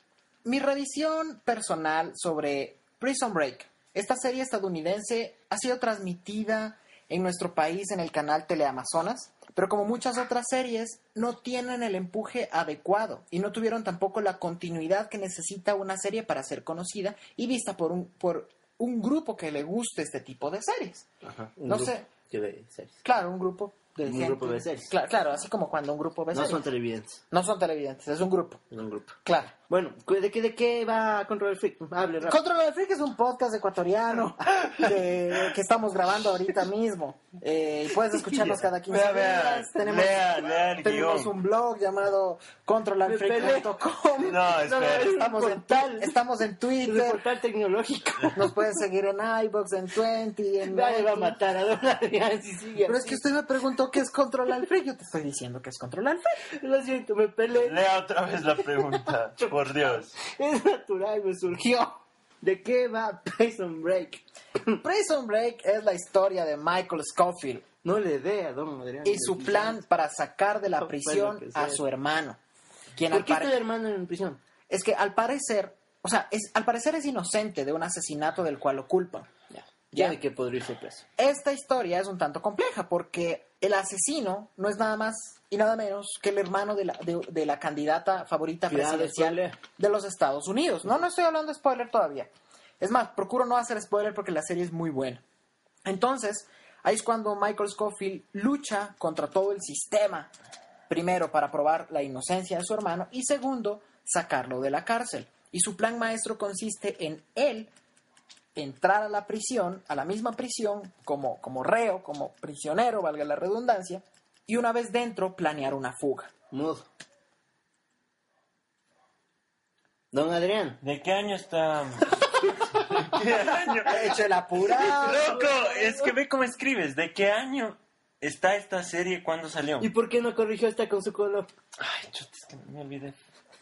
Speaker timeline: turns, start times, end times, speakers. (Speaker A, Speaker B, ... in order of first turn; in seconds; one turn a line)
Speaker A: 0.5-21.1
Speaker B: 21.2-23.0
Speaker A: 21.7-22.1
Speaker A: 23.0-26.6
Speaker B: 24.1-24.9
Speaker B: 26.3-27.2
Speaker A: 27.3-28.6
Speaker B: 28.7-32.4
Speaker A: 29.2-29.5
Speaker A: 32.2-40.2
Speaker C: 34.6-34.9
Speaker B: 38.3-40.1
Speaker C: 38.9-41.3
Speaker A: 40.8-47.2
Speaker B: 43.0-46.2
Speaker C: 44.2-45.1
Speaker B: 46.8-48.6
Speaker A: 48.3-51.4
Speaker B: 50.6-53.2
Speaker A: 52.9-56.3
Speaker B: 56.5-57.8
Speaker C: 57.6-60.2
Speaker B: 58.9-64.8
Speaker A: 64.8-67.7
Speaker B: 67.8-69.8
Speaker A: 69.0-72.4
Speaker B: 70.8-71.8
Speaker A: 73.0-73.5
Speaker B: 73.1-74.4
Speaker A: 74.7-80.2
Speaker B: 79.9-81.0
Speaker A: 81.2-92.3
Speaker B: 88.7-89.6
Speaker A: 92.8-95.2
Speaker A: 95.8-100.3
Speaker A: 100.9-107.7
Speaker A: 108.5-116.3
Speaker B: 116.5-116.9
Speaker B: 120.1-120.8
Speaker C: 120.8-124.2
Speaker A: 123.8-125.3
Speaker B: 124.6-126.1
Speaker C: 124.9-129.9
Speaker B: 129.8-131.5
Speaker C: 131.8-133.2